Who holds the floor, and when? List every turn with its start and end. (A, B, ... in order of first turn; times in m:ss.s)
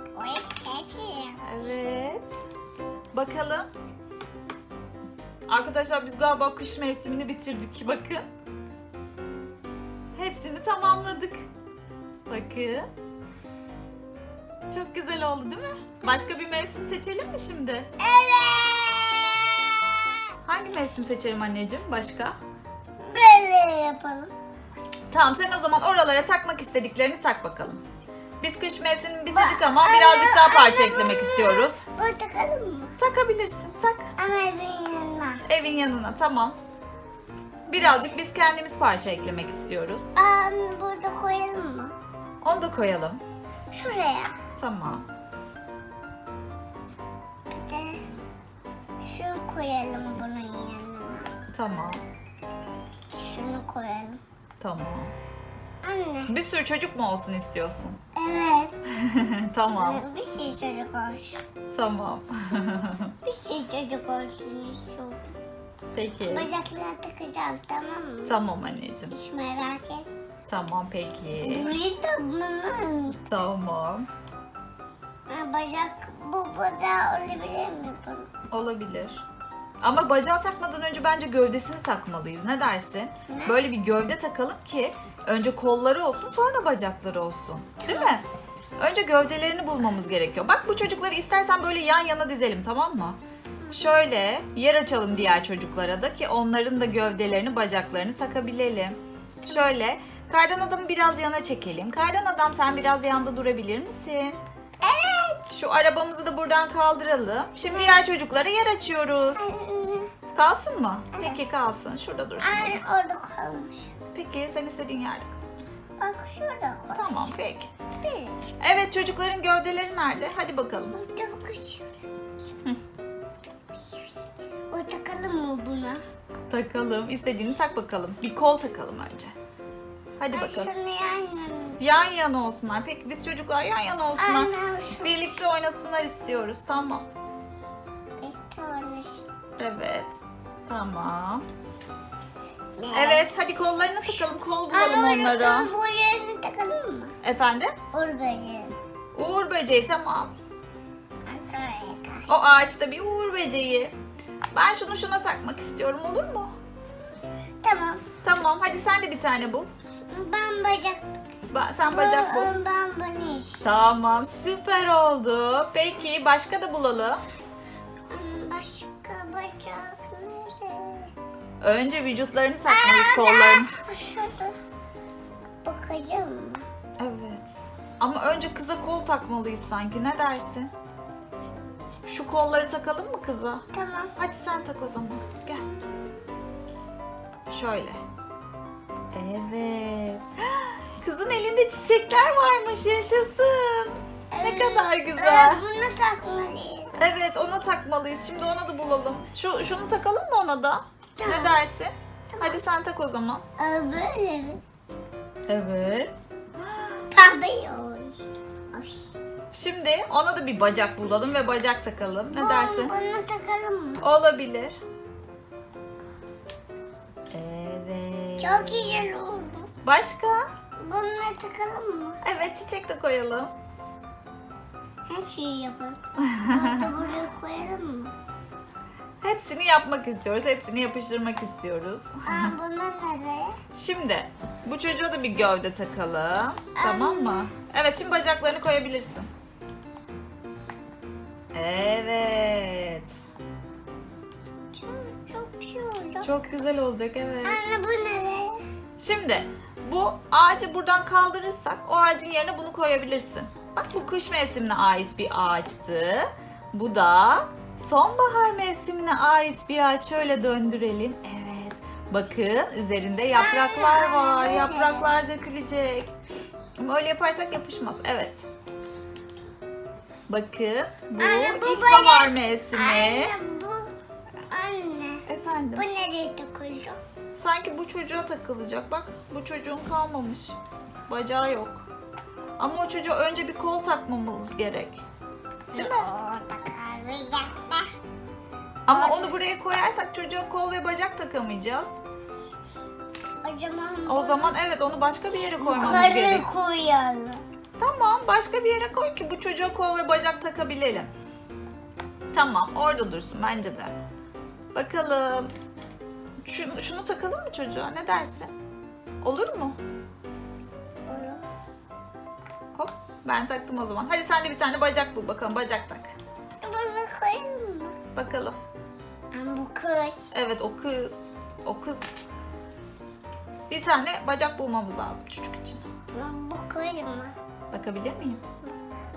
0:00.2-0:01.6 A
0:01.4-0:02.4 B
0:03.1-0:03.7 B
0:05.5-0:08.3 B
0:10.2-0:11.4 B
0:12.3-0:12.9 B
0:14.7-0:17.9 B
0:18.0-0:20.2 A
0:20.4-0:22.4 B
0:23.0-0:24.3 A
0:25.1-0:27.8 B
0:28.4-0:31.8 B
0:29.3-0:33.0 A
0:33.0-0:34.1 B
0:34.2-0:35.4 A
0:35.5-0:36.6 B
0:37.7-0:40.1 B
0:40.2-0:42.0 A
0:42.4-0:43.2 B
0:43.7-0:44.4 A
0:44.6-0:45.1 B
0:47.5-0:48.0 A
0:49.0-0:51.3 A
0:51.5-0:52.0 B
0:53.1-0:54.2 A
0:54.6-0:55.1 B
0:55.8-0:56.3 A
0:56.3-0:58.0 B
0:58.2-0:58.8 A
0:59.0-1:00.0 B
0:59.7-1:01.4 A
1:01.7-1:03.1 B
1:03.2-1:05.4 A
1:06.0-1:06.5 B
1:06.2-1:08.4 A
1:08.3-1:09.2 B
1:09.1-1:10.1 A
1:10.5-1:11.7 B
1:11.4-1:13.2 A
1:13.2-1:14.1 B
1:15.3-1:18.3 A
1:18.5-1:19.2 B
1:19.8-1:28.3 B
1:23.3-1:23.6 A
1:27.8-1:28.1 A
1:28.8-1:33.2 B
1:33.6-1:33.9 A
1:33.7-1:44.4 B
1:44.8-1:45.4 A
1:45.5-1:49.5 B
1:47.7-1:48.0 A
1:49.4-1:50.1 A
1:50.4-1:52.8 B
1:51.1-1:51.4 A
1:52.4-1:53.9 A
1:54.1-1:55.6 B
1:56.0-1:57.1 A
1:56.9-1:57.7 B
1:58.0-1:58.5 A
1:58.6-2:01.0 B
2:00.9-2:02.0 A
2:04.7-2:06.0 A
2:06.5-2:09.3 B
2:10.2-2:10.7 B
2:10.3-2:11.8 A
2:11.8-2:17.1 B
2:14.2-2:15.2 A
2:18.2-2:19.2 A
2:19.6-2:21.4 B
2:22.8-2:27.2 A
2:22.9-2:25.7 B
2:27.2-2:27.8 B
2:27.9-2:28.7 A
2:29.2-2:30.3 B
2:31.3-2:32.3 A
2:32.3-2:33.9 B
2:34.5-2:36.5 B
2:37.6-2:38.0 A
2:38.2-2:39.7 B
2:40.1-2:41.1 A
2:41.5-2:42.6 B
2:41.9-2:43.7 A
2:43.6-2:47.2 B
2:48.1-2:51.1 A
2:51.6-2:53.7 B
2:52.7-2:54.6 A
2:55.6-2:56.6 A
2:57.0-3:00.7 B
3:02.1-3:03.6 B
3:03.7-3:04.2 A
3:04.2-3:05.7 B
3:05.6-3:06.0 A
3:07.5-3:08.0 B
3:09.1-3:15.6 B
3:14.3-3:17.0 A
3:17.0-3:23.4 B
3:21.2-3:21.6 A
3:22.3-3:22.6 A
3:23.6-3:24.6 A
3:25.5-3:26.9 B
3:27.1-3:28.2 A
3:28.7-3:29.1 A
3:29.5-3:32.9 B
3:32.4-3:34.1 A
3:34.0-3:34.8 B
3:37.3-3:39.1 B
3:38.4-3:39.7 A
3:39.8-3:40.4 B
3:40.8-3:42.2 A
3:42.2-3:43.5 B
3:45.1-3:48.1 A
3:46.2-3:47.0 B
3:49.2-3:52.5 B
3:52.3-3:53.6 A
3:53.7-3:59.3 B
3:56.8-3:57.5 A
4:01.5-4:03.1 B
4:04.7-4:06.5 A
4:06.2-4:07.6 B
4:07.4-4:08.6 A
4:09.0-4:26.1 B
4:23.3-4:25.1 A
4:26.8-4:28.5 B
4:30.3-4:33.4 B
4:31.2-4:33.9 A
4:34.5-4:37.0 A
4:35.3-4:35.9 B
4:37.4-4:41.8 B
4:42.6-4:45.0 B
4:45.7-4:47.9 A
4:45.8-4:46.1 B
4:48.9-4:52.0 B
4:48.9-4:49.4 A
4:53.4-4:54.5 A
4:54.1-4:56.4 B
4:55.6-4:57.4 A
4:57.8-5:01.1 B
5:02.3-5:04.0 B
5:04.7-5:05.5 B
5:06.4-5:08.5 B
5:09.2-5:09.8 B
5:11.1-5:11.4 A
5:12.8-5:16.1 B
5:16.6-5:18.0 A
5:18.2-5:18.6 B
5:19.3-5:20.3 A
5:20.3-5:22.1 B
5:23.7-5:25.8 B
5:26.1-5:27.4 A
5:27.7-5:28.4 B